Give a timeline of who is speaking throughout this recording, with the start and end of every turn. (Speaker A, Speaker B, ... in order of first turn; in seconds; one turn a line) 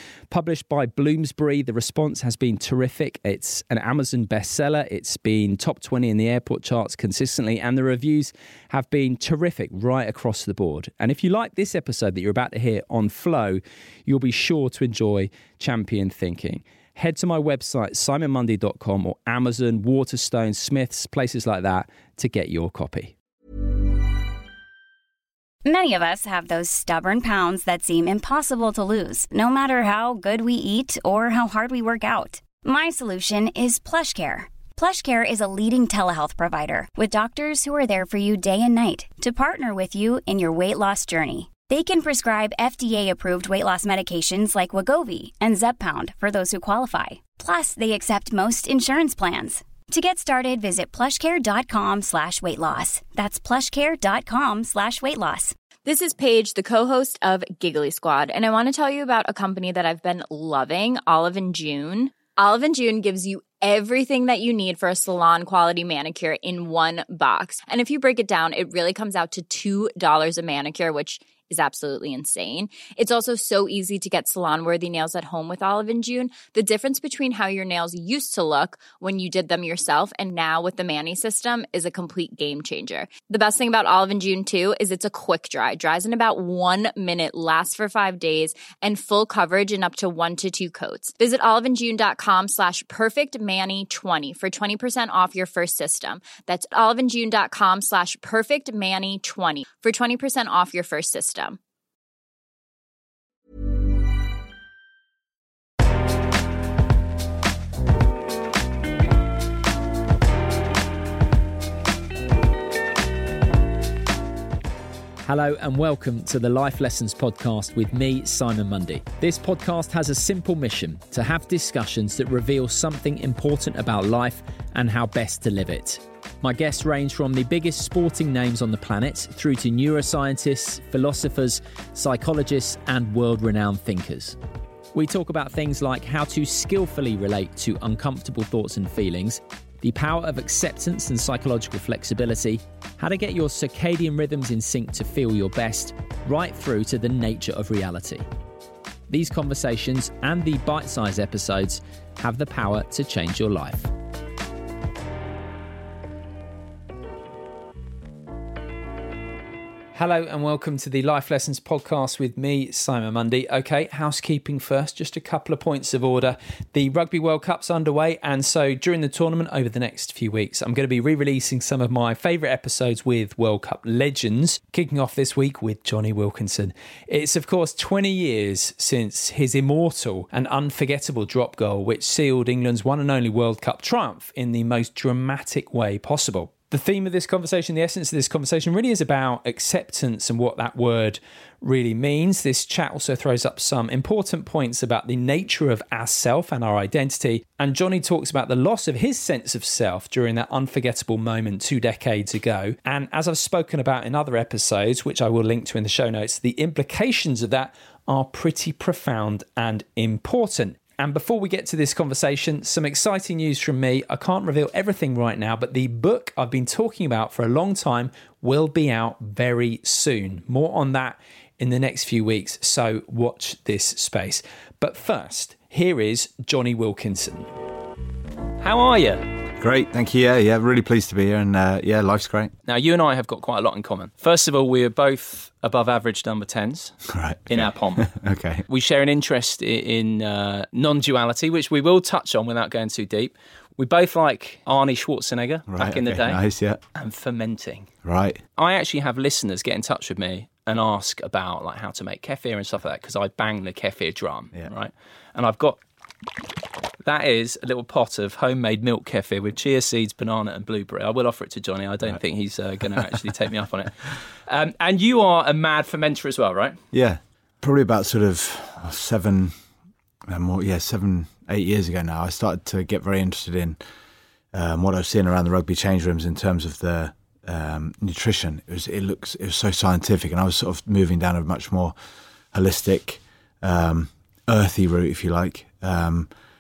Speaker A: 0.3-23.1
Speaker B: 25.6-55.5
Speaker C: 55.9-101.6
Speaker A: 115.2-134.4
Speaker A: 134.9-148.2
Speaker A: 149.1-153.9
Speaker A: 159.9-227.5
Speaker A: 228.6-229.3
Speaker D: 229.6-232.5
Speaker A: 232.7-238.1
Speaker D: 237.1-238.7
Speaker A: 238.7-246.4
Speaker D: 245.7-246.8
Speaker A: 246.9-247.9
Speaker D: 248.0-248.4
Speaker A: 248.6-255.8
Speaker A: 257.0-266.8
Speaker D: 266.9-269.6
Speaker D: 270.3-273.8
Speaker D: 274.5-281.9
Speaker D: 282.5-286.3